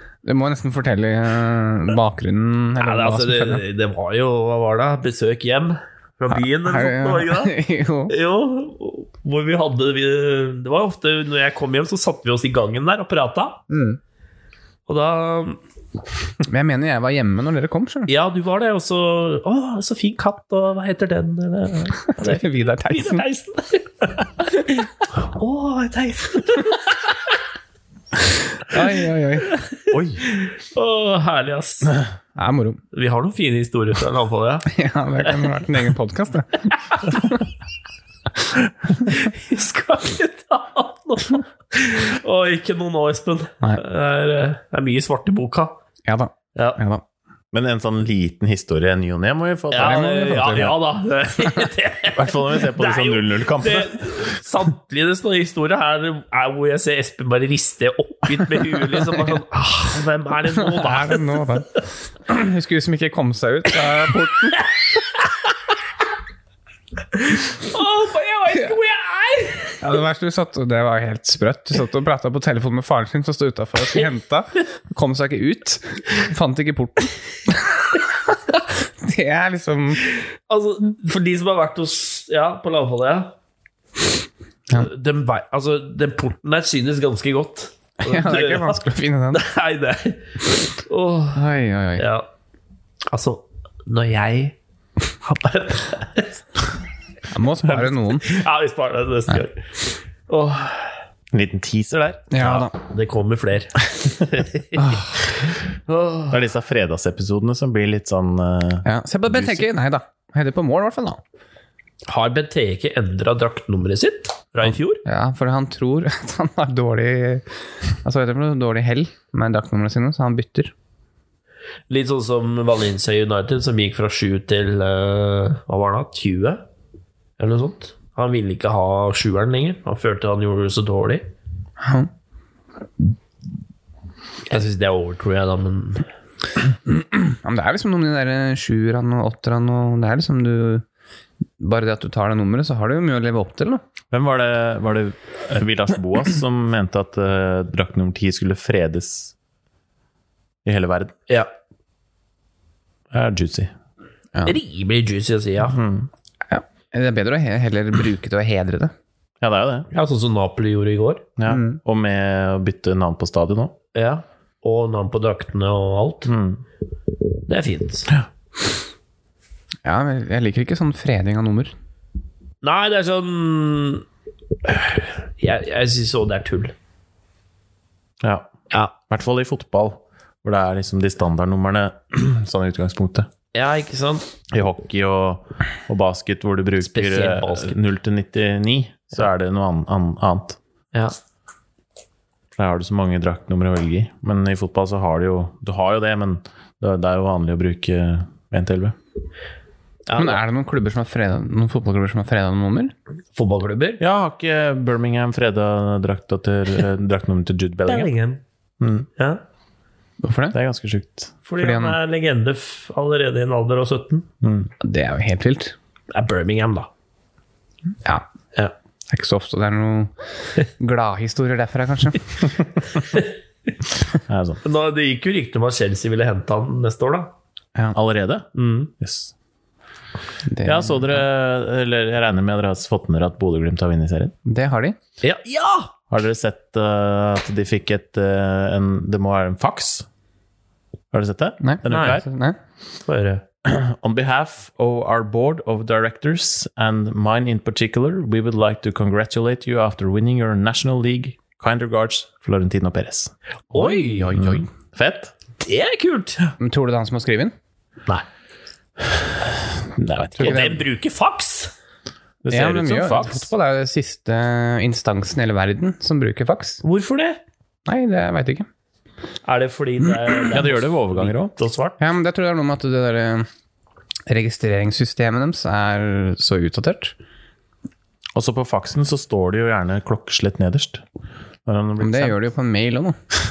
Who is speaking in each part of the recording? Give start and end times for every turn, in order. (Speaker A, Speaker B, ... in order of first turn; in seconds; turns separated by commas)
Speaker A: 0.2-3.6, Speaker B: 2.8-13.7, Speaker A: 6.3-8.1, Speaker A: 13.7-14.0, Speaker B: 14.9-15.6, Speaker A: 16.4-18.1, Speaker B: 18.1-27.1, Speaker A: 22.1-23.2, Speaker A: 28.6-29.5, Speaker B: 29.4-32.0, Speaker C: 29.9-30.2, Speaker A: 32.4-32.8, Speaker B: 32.9-34.7, Speaker A: 34.7-37.4, Speaker B: 39.0-45.8, Speaker A: 46.0-47.0, Speaker C: 47.5-50.7, Speaker B: 49.7-61.4, Speaker A: 49.8-50.8, Speaker C: 52.1-54.3, Speaker A: 58.9-59.2, Speaker A: 60.5-64.7, Speaker B: 67.2-69.8, Speaker A: 69.8-80.0, Speaker B: 80.0-83.3, Speaker B: 84.7-88.8, Speaker A: 88.0-89.4, Speaker B: 89.3-92.3, Speaker A: 91.3-92.1, Speaker B: 93.1-94.6, Speaker B: 95.1-96.4, Speaker A: 97.3-98.3, Speaker B: 97.7-101.0, Speaker C: 101.3-102.5, Speaker A: 102.3-102.7, Speaker B: 102.4-106.4, Speaker A: 104.8-105.0, Speaker C: 106.3-109.7, Speaker A: 108.8-111.2, Speaker B: 112.1-115.0, Speaker A: 115.0-120.7, Speaker B: 121.9-126.6, Speaker B: 127.4-131.3, Speaker A: 131.8-132.1, Speaker B: 134.5-136.1, Speaker A: 136.8-140.8, Speaker A: 141.6-143.8, Speaker C: 144.1-149.3, Speaker C: 150.6-151.2, Speaker C: 153.1-153.7, Speaker B: 154.4-155.8, Speaker C: 155.7-156.1, Speaker A: 156.5-158.9, Speaker C: 159.4-159.9, Speaker B: 159.9-161.2, Speaker C: 161.4-163.8, Speaker A: 161.5-161.8, Speaker B: 163.9-166.3, Speaker C: 166.3-166.6, Speaker B: 167.5-168.1, Speaker A: 169.8-171.7, Speaker B: 172.6-174.1, Speaker B: 174.7-176.7, Speaker C: 178.2-178.5, Speaker C: 179.0-183.3, Speaker B: 183.5-184.3, Speaker C: 184.5-190.6, Speaker B: 186.8-187.8, Speaker C: 192.6-198.9, Speaker B: 200.1-200.4, Speaker A: 200.2-202.9, Speaker B: 203.3-204.0, Speaker C: 204.0-208.1, Speaker B: 207.9-208.4, Speaker C: 208.8-209.1, Speaker A: 210.2-210.6, Speaker C: 210.5-211.3, Speaker B: 211.4-214.2, Speaker A: 211.6-212.0, Speaker C: 214.4-214.7, Speaker A: 214.8-215.7, Speaker B: 216.1-216.9, Speaker A: 219.1-222.4, Speaker C: 224.1-224.6, Speaker B: 224.6-227.3, Speaker C: 227.9-229.3, Speaker B: 228.5-228.9, Speaker A: 230.5-231.2, Speaker C: 230.6-234.3, Speaker A: 234.4-234.9, Speaker B: 235.2-235.9, Speaker C: 236.1-240.1, Speaker C: 241.1-242.2, Speaker A: 241.6-242.6, Speaker B: 241.9-242.2, Speaker B: 243.1-243.4, Speaker C: 243.6-253.3, Speaker B: 253.7-254.4, Speaker A: 253.7-254.7, Speaker C: 254.3-255.3, Speaker B: 255.6-256.4, Speaker A: 256.6-257.5, Speaker C: 259.2-260.8, Speaker A: 260.4-260.8, Speaker B: 260.4-261.7, Speaker C: 262.4-263.5, Speaker A: 262.5-266.8, Speaker B: 266.8-267.4, Speaker A: 267.9-268.7, Speaker B: 269.4-272.0, Speaker C: 270.4-271.5, Speaker A: 272.0-273.5, Speaker A: 274.3-277.1, Speaker C: 278.3-281.0, Speaker C: 281.6-282.4, Speaker A: 282.0-283.2